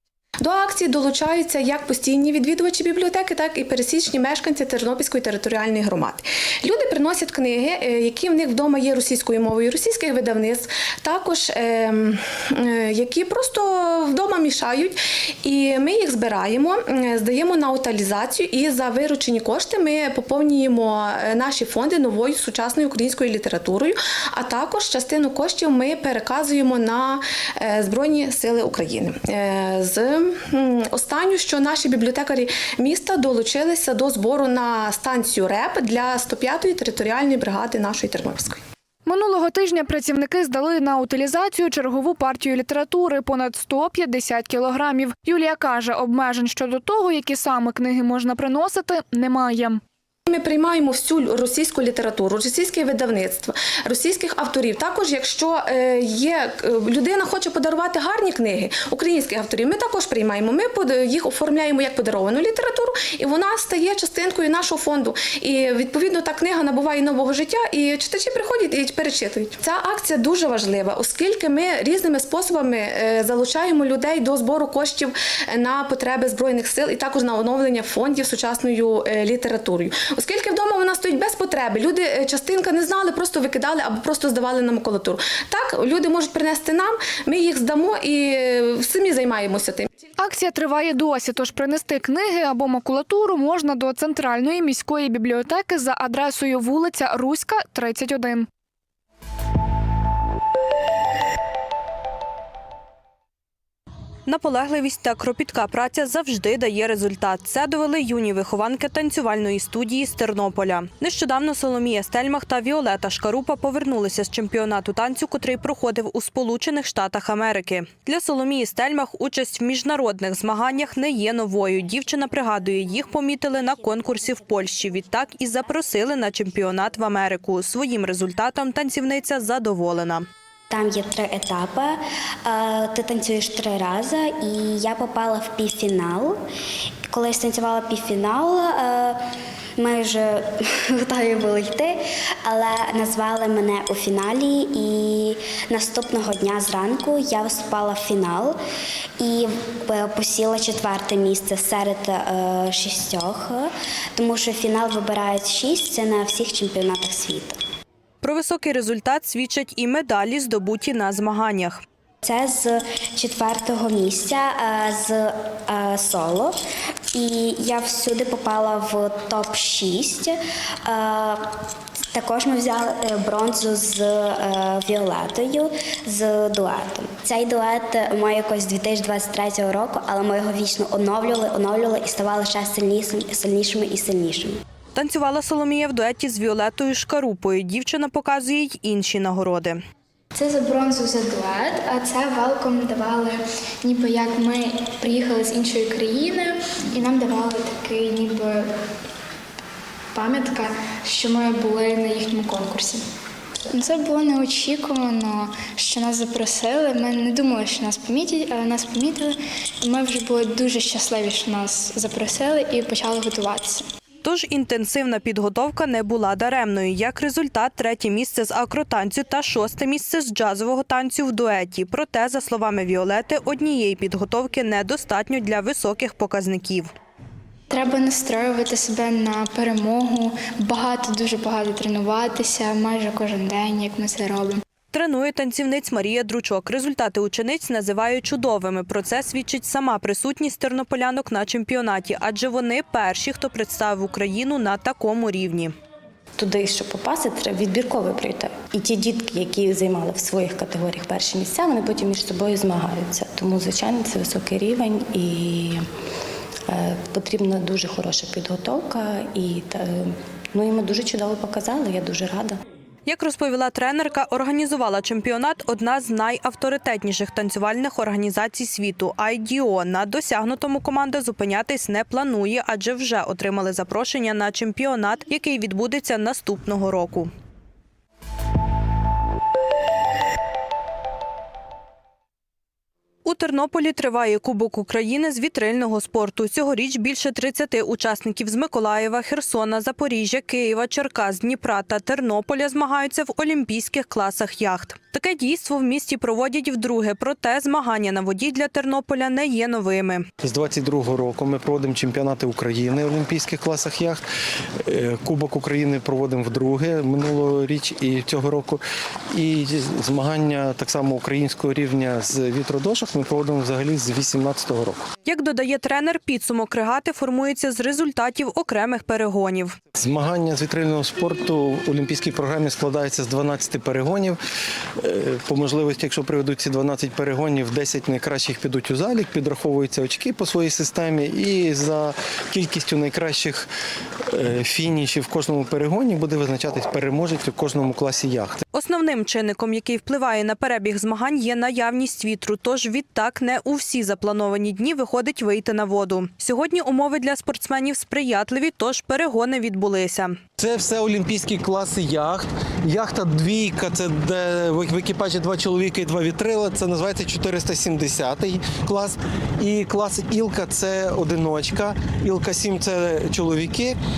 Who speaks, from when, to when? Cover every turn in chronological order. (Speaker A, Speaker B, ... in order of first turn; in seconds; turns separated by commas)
Speaker A: 0.4-38.6, Speaker B: 39.1-49.8, Speaker A: 50.3-89.9, Speaker B: 90.2-98.5, Speaker C: 104.3-130.2, Speaker D: 130.7-136.4, Speaker D: 137.1-139.2, Speaker D: 139.8-148.6, Speaker D: 149.2-157.6, Speaker C: 158.2-161.8, Speaker D: 162.2-166.6, Speaker D: 167.1-171.5, Speaker D: 172.1-184.6, Speaker C: 184.9-189.8, Speaker E: 190.3-198.7, Speaker E: 200.1-203.0, Speaker E: 203.7-213.9, Speaker C: 214.2-226.9, Speaker E: 227.7-234.6, Speaker C: 234.9-245.7, Speaker F: 246.4-255.9, Speaker F: 256.7-262.6, Speaker C: 263.1-277.3, Speaker C: 283.2-300.3, Speaker G: 300.4-304.2, Speaker G: 304.8-315.1, Speaker C: 315.2-319.8, Speaker G: 319.9-324.4, Speaker G: 325.0-333.7, Speaker G: 334.3-338.6, Speaker C: 338.7-350.4, Speaker G: 350.6-364.0